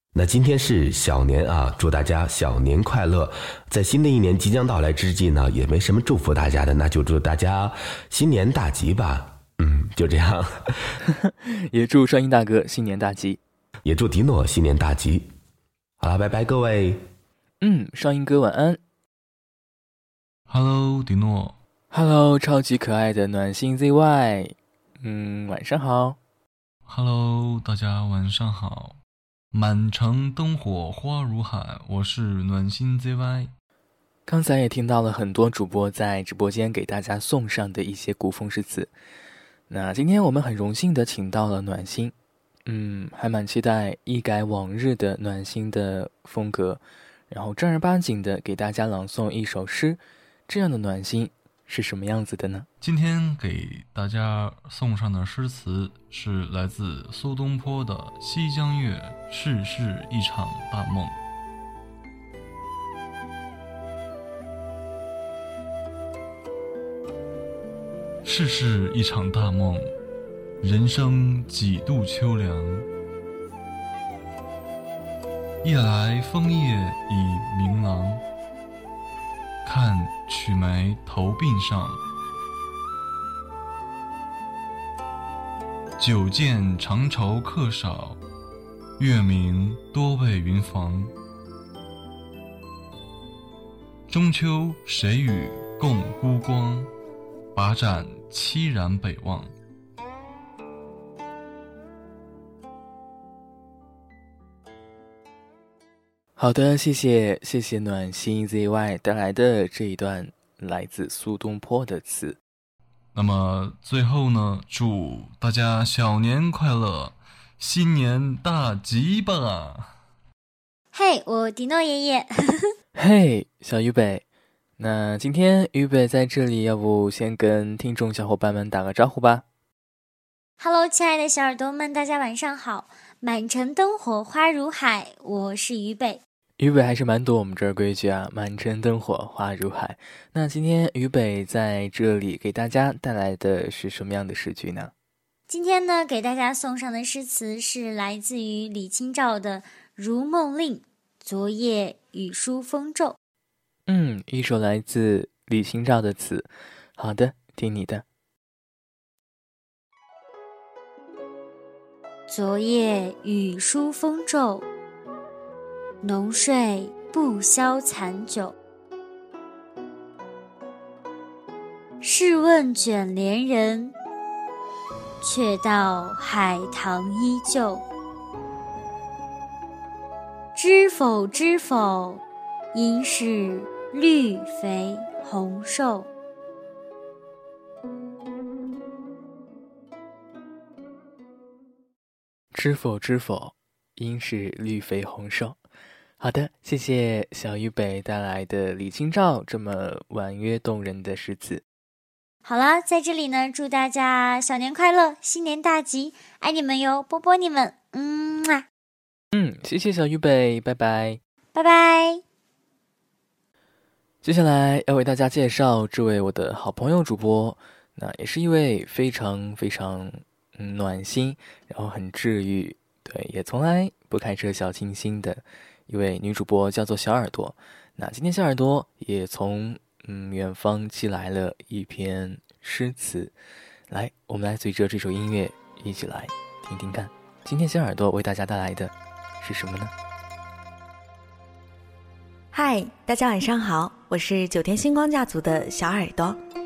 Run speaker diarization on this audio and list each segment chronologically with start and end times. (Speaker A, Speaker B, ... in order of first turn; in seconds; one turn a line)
Speaker A: 0.1-10.6
Speaker B: 11.1-13.4
Speaker A: 13.8-15.3
Speaker A: 16.0-17.0
Speaker B: 17.6-18.8
Speaker C: 20.5-21.6
Speaker B: 21.9-26.2
Speaker C: 26.9-29.0
Speaker C: 29.5-33.5
Speaker B: 34.3-38.9
Speaker B: 39.7-42.1
Speaker B: 42.6-52.7
Speaker C: 52.8-61.2
Speaker C: 68.2-69.9
Speaker C: 70.6-72.8
Speaker C: 75.6-78.2
Speaker C: 79.6-82.0
Speaker C: 86.0-88.2
Speaker C: 89.0-91.1
Speaker C: 94.1-96.9
Speaker C: 97.5-99.5
Speaker B: 106.4-112.4
Speaker C: 113.1-119.9
Speaker D: 120.9-122.7
Speaker B: 123.0-124.2
Speaker B: 124.8-129.4
Speaker D: 130.6-136.2
Speaker B: 136.6-144.9
Speaker D: 145.5-153.2
Speaker B: 153.9-158.0
Speaker D: 162.3-164.7
Speaker D: 166.0-168.5
Speaker D: 172.0-173.9
Speaker D: 175.2-177.8
Speaker D: 180.5-182.2
Speaker D: 182.7-186.1
Speaker B: 192.5-195.6
Speaker B: 196.2-201.6
Speaker D: 202.4-208.6
Speaker B: 209.3-211.2
Speaker D: 211.5-212.2
Speaker B: 214.2-233.3
Speaker B: 233.9-239.9
Speaker E: 242.5-246.4